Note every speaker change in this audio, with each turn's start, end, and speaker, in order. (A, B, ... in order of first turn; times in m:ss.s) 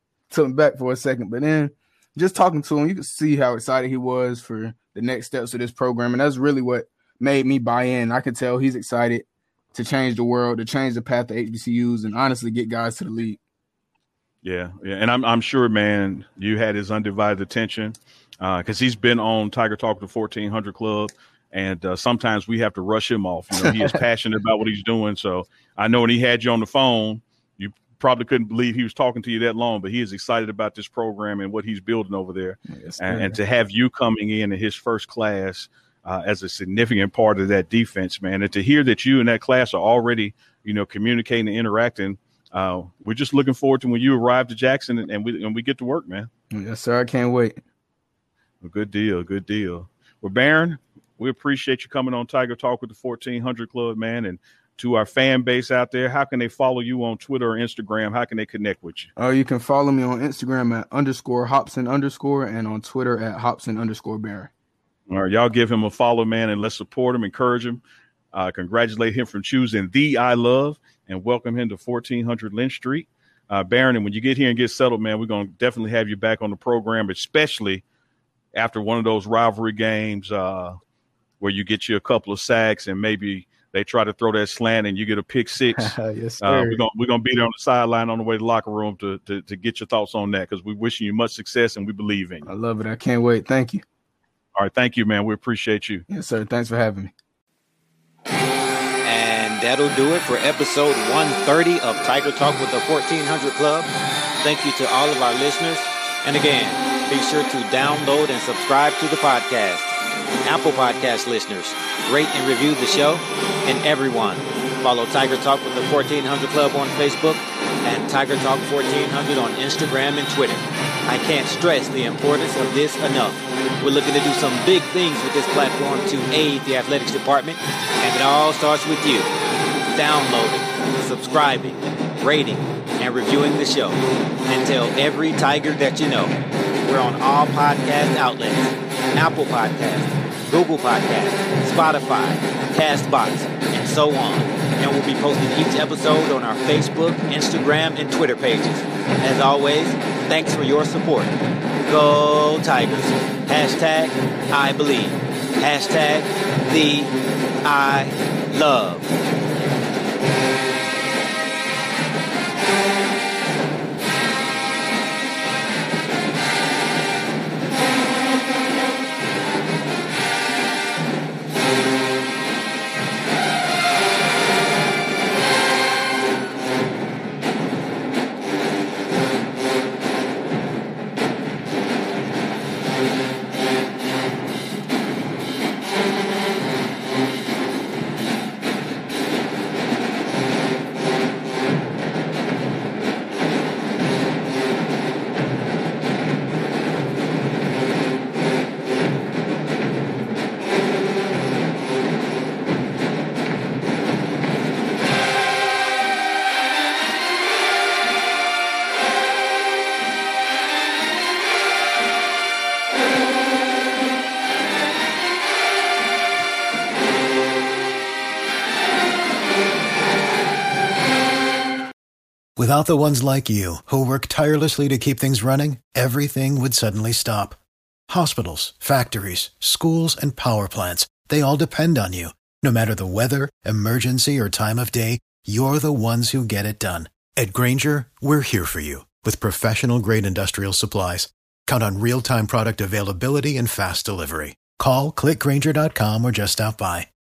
0:00.3-0:13.4 A
0:14.4-0:46.3 B
0:32.7-0:33.4 A
0:46.5-0:47.6 A
0:48.6-0:59.1 B
0:59.2-1:04.5 A
1:05.1-1:17.8 B
1:18.5-1:20.8 B
1:21.4-1:32.5 B
1:25.7-1:26.8 A
1:32.4-1:33.8 A
1:34.6-1:36.0 B
1:36.1-1:37.1 A
1:39.0-2:09.3 C
2:09.9-2:37.1 C
2:37.6-2:39.1 C
3:42.6-4:07.1 D